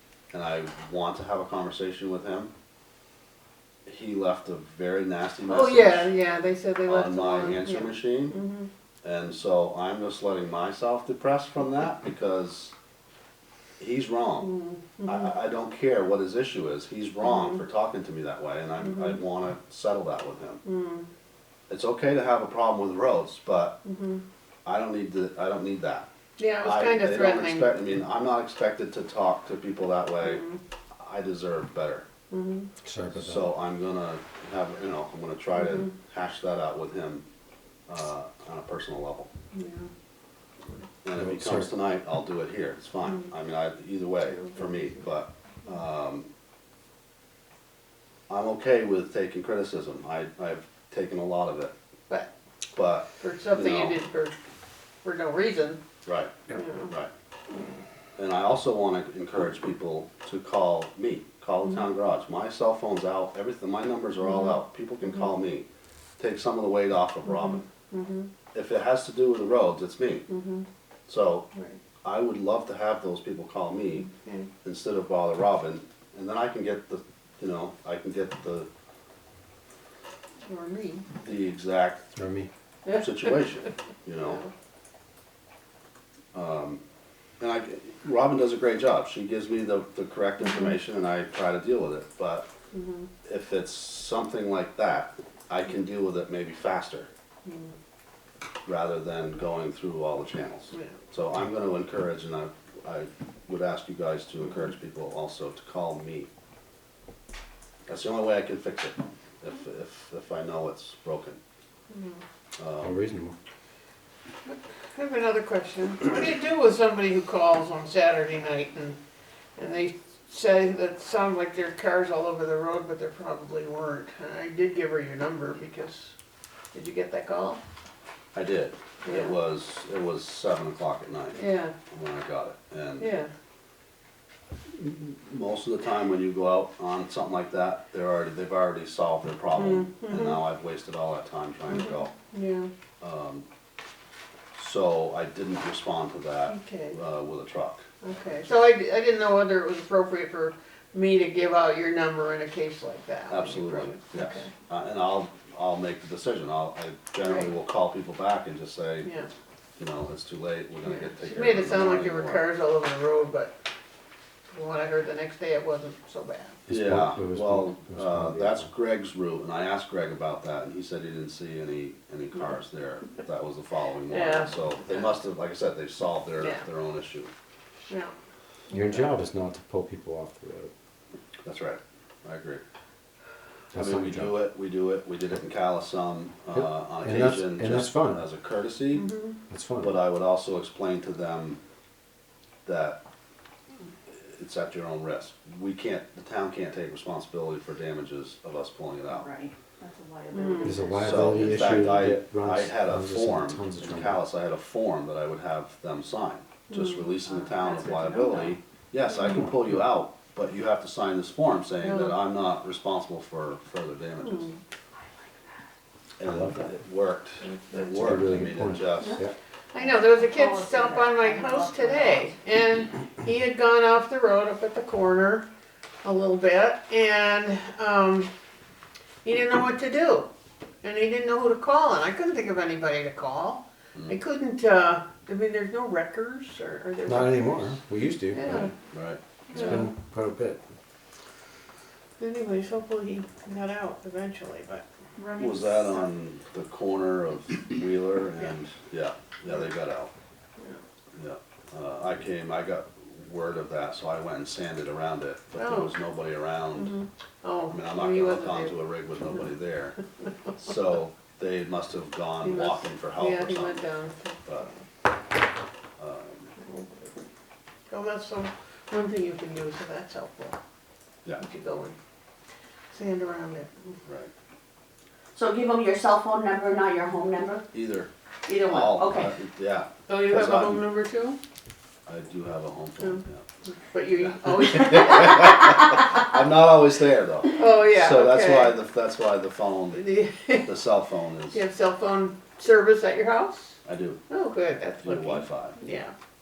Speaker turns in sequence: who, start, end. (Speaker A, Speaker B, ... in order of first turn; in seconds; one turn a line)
Speaker A: 0.3-2.5
Speaker A: 3.9-6.1
Speaker B: 5.5-8.7
Speaker A: 6.9-8.4
Speaker A: 9.0-12.7
Speaker A: 13.8-20.6
Speaker B: 14.4-15.3
Speaker B: 17.2-17.6
Speaker B: 18.8-19.2
Speaker B: 20.6-21.1
Speaker A: 21.7-23.8
Speaker B: 23.8-24.2
Speaker A: 24.6-26.1
Speaker B: 26.4-27.7
Speaker A: 26.6-30.4
Speaker B: 30.2-30.6
Speaker A: 31.0-32.0
Speaker B: 32.3-32.7
Speaker C: 32.8-33.5
Speaker A: 33.1-37.2
Speaker B: 35.5-35.9
Speaker A: 37.9-39.3
Speaker B: 39.5-39.9
Speaker A: 41.0-46.3
Speaker C: 41.1-41.7
Speaker B: 44.2-45.0
Speaker A: 48.3-51.7
Speaker A: 52.7-54.0
Speaker B: 53.2-54.4
Speaker B: 55.0-55.8
Speaker A: 56.0-57.1
Speaker B: 56.5-56.9
Speaker A: 58.2-65.7
Speaker B: 64.2-64.5
Speaker A: 66.2-67.6
Speaker B: 67.2-68.3
Speaker A: 68.5-70.3
Speaker B: 70.3-70.7
Speaker A: 71.1-71.5
Speaker A: 72.0-74.1
Speaker B: 74.0-74.5
Speaker A: 74.6-78.7
Speaker B: 80.5-81.0
Speaker A: 81.2-82.1
Speaker C: 82.2-82.5
Speaker B: 82.8-83.4
Speaker A: 82.9-84.4
Speaker B: 84.2-84.5
Speaker A: 86.3-86.8
Speaker A: 87.4-92.5
Speaker B: 90.4-90.8
Speaker B: 92.7-93.1
Speaker A: 93.2-97.1
Speaker B: 97.4-97.7
Speaker A: 98.7-106.3
Speaker A: 107.9-111.4
Speaker B: 111.9-112.2
Speaker A: 112.6-113.0
Speaker C: 112.8-113.3
Speaker B: 114.5-119.0
Speaker B: 119.6-126.1
Speaker B: 126.7-127.6
Speaker A: 128.3-131.4
Speaker B: 129.0-129.3
Speaker B: 131.3-131.7
Speaker A: 131.9-133.1
Speaker B: 133.0-133.3
Speaker A: 134.7-142.1
Speaker B: 139.5-140.4
Speaker B: 141.7-142.7
Speaker A: 143.0-143.4
Speaker A: 144.5-147.9
Speaker B: 146.5-147.0
Speaker B: 148.0-154.5
Speaker A: 153.3-159.1
Speaker B: 157.2-157.5
Speaker B: 159.0-159.3
Speaker A: 159.8-162.5
Speaker B: 160.8-163.6
Speaker B: 164.5-166.6
Speaker C: 166.7-168.7
Speaker A: 166.7-177.3
Speaker B: 174.1-175.1
Speaker B: 176.4-176.6
Speaker C: 178.7-180.7
Speaker A: 181.4-182.6
Speaker C: 183.7-184.4
Speaker A: 183.7-189.1
Speaker C: 186.5-188.2
Speaker B: 188.9-189.3
Speaker C: 189.5-189.9
Speaker A: 189.8-191.6
Speaker A: 192.6-193.0
Speaker A: 194.2-199.3
Speaker D: 199.1-201.6
Speaker B: 200.3-200.9
Speaker C: 200.6-204.2
Speaker A: 201.0-214.5
Speaker B: 206.7-207.0
Speaker D: 207.2-208.6
Speaker B: 211.8-212.2
Speaker B: 214.2-214.5
Speaker A: 216.2-219.2
Speaker C: 216.2-216.7
Speaker B: 217.4-218.2
Speaker C: 218.0-219.3
Speaker B: 219.7-225.5
Speaker D: 219.8-222.3
Speaker B: 226.0-228.3
Speaker B: 229.2-230.3
Speaker B: 230.8-238.7
Speaker C: 237.0-238.7
Speaker A: 238.5-239.7
Speaker B: 239.5-239.9
Speaker C: 239.6-240.6
Speaker B: 242.2-244.8
Speaker D: 245.2-245.7
Speaker A: 245.4-250.1
Speaker A: 251.1-256.9
Speaker B: 255.6-256.0
Speaker B: 256.7-258.8
Speaker A: 257.7-260.0
Speaker A: 260.5-263.8
Speaker B: 262.4-264.7
Speaker A: 266.0-266.5
Speaker B: 266.6-267.1
Speaker B: 267.9-270.6
Speaker B: 271.4-271.9
Speaker B: 272.9-273.7
Speaker D: 275.3-277.6
Speaker A: 277.7-278.1
Speaker D: 278.5-279.3
Speaker A: 278.6-280.8
Speaker B: 280.1-281.4
Speaker A: 282.1-283.4
Speaker B: 283.0-285.9
Speaker A: 284.2-291.6
Speaker B: 287.5-288.8
Speaker B: 289.9-290.7
Speaker B: 291.5-293.8
Speaker A: 293.8-294.2
Speaker B: 294.3-296.1
Speaker A: 295.0-295.8